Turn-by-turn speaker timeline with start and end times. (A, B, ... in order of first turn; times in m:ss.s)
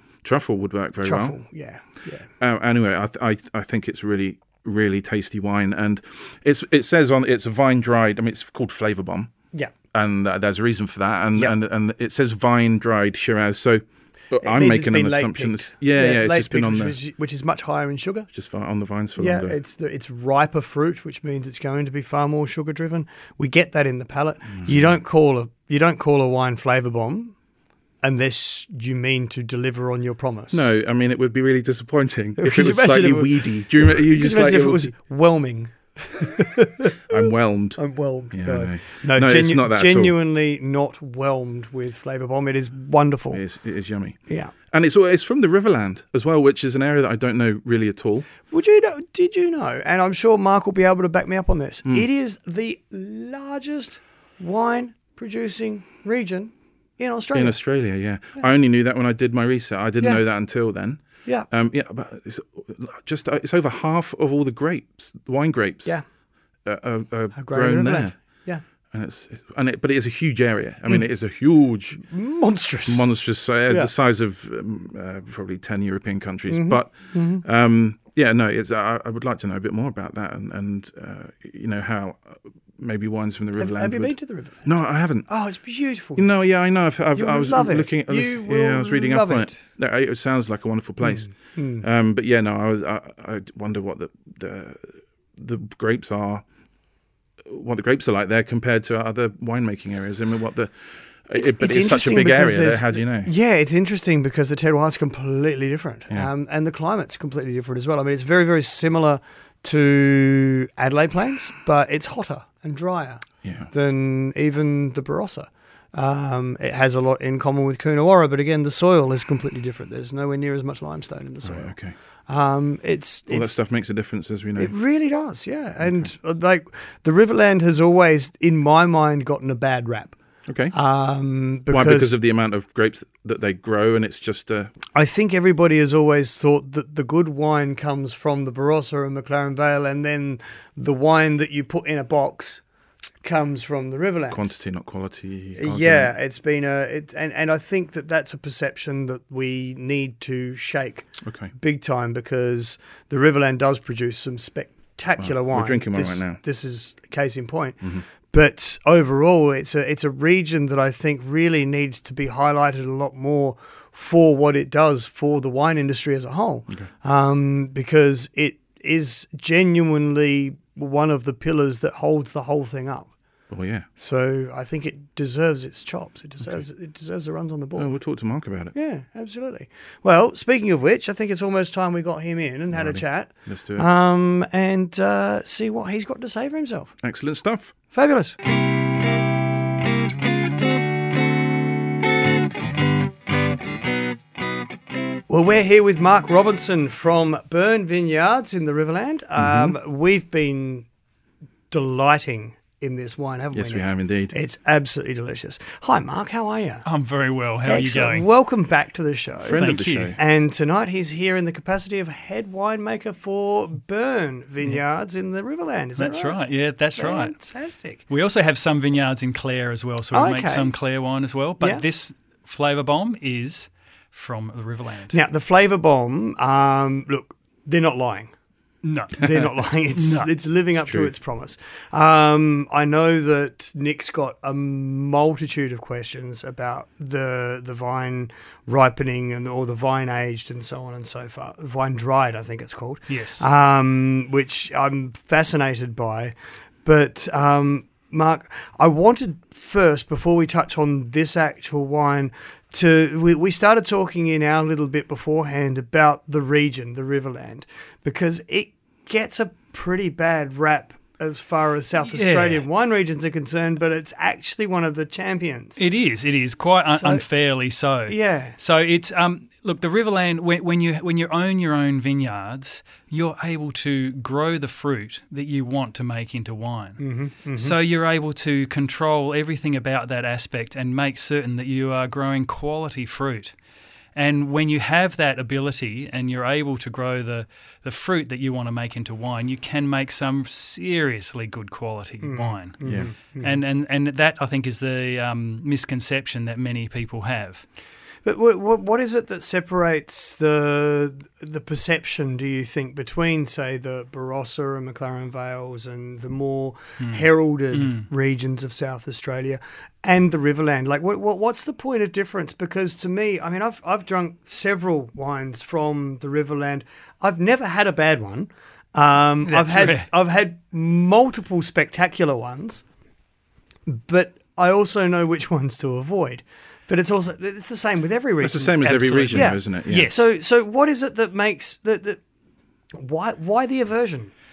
0:00.2-0:01.4 A
0:01.0-0:02.3 B
0:02.4-0:09.3 A
0:09.9-0:17.0 A
0:14.4-0:18.3 B
0:18.3-0:19.6 A
0:19.2-0:27.4 B
0:24.6-0:25.0 A
0:28.0-0:30.7 B
0:30.5-0:34.9 A
0:32.4-0:37.1 B
0:37.1-0:37.8 A
0:37.8-0:43.4 B
0:38.3-0:40.2 A
0:43.3-0:48.3 A
0:44.3-0:44.5 B
0:48.5-0:57.6 B
0:57.3-1:06.0 A
1:06.6-1:08.2 A
1:07.4-1:08.6 B
1:08.9-1:12.0 A
1:12.0-1:13.1 B
1:12.9-1:25.3 A
1:16.5-1:17.4 B
1:23.6-1:24.7 B
1:25.3-1:26.3 B
1:26.2-1:36.4 A
1:27.2-1:29.6 B
1:31.0-1:31.8 B
1:37.4-1:40.8 A
1:41.3-1:43.3 A
1:41.3-2:01.8 B
1:53.4-1:53.7 A
2:01.4-2:02.0 A
2:02.3-2:03.6 B
2:03.3-2:04.7 A
2:04.6-2:10.2 B
2:05.8-2:06.1 A
2:10.5-2:10.7 A
2:10.7-2:12.1 B
2:11.7-2:14.7 A
2:15.0-2:22.6 B
2:23.2-2:24.4 B
2:24.3-2:26.1 A
2:25.6-2:53.1 B
2:31.2-2:31.5 A
2:35.2-2:36.4 A
2:53.5-2:53.9 A
2:54.0-2:58.0 B
2:57.8-2:58.7 A
2:58.7-3:07.0 B
3:02.7-3:03.9 A
3:07.0-3:07.8 A
3:07.9-3:08.4 B
3:15.3-3:20.9 B
3:19.4-3:19.8 A
3:21.7-3:26.9 B
3:23.5-3:24.3 A
3:26.8-3:28.3 C
3:27.7-3:36.4 B
3:29.4-3:30.2 A
3:29.5-3:30.2 C
3:36.0-3:37.4 C
3:37.0-3:38.0 B
3:38.1-3:45.2 C
3:40.1-3:40.8 B
3:45.1-3:48.3 B
3:48.8-3:50.3 C
3:49.2-4:25.8 B
4:03.1-4:03.4 C
4:22.0-4:22.6 C
4:25.8-4:37.0 C
4:26.9-4:27.2 B
4:28.1-4:28.6 B
4:37.0-4:37.8 B
4:37.6-4:43.5 C
4:44.2-4:57.6 C
4:52.2-4:53.6 B
4:52.8-4:53.1 A
4:58.2-5:22.8 B
5:07.0-5:08.1 C
5:19.5-5:20.1 C
5:23.9-5:32.2 B
5:28.4-5:30.1 A
5:28.8-5:30.3 C
5:33.0-5:34.3 B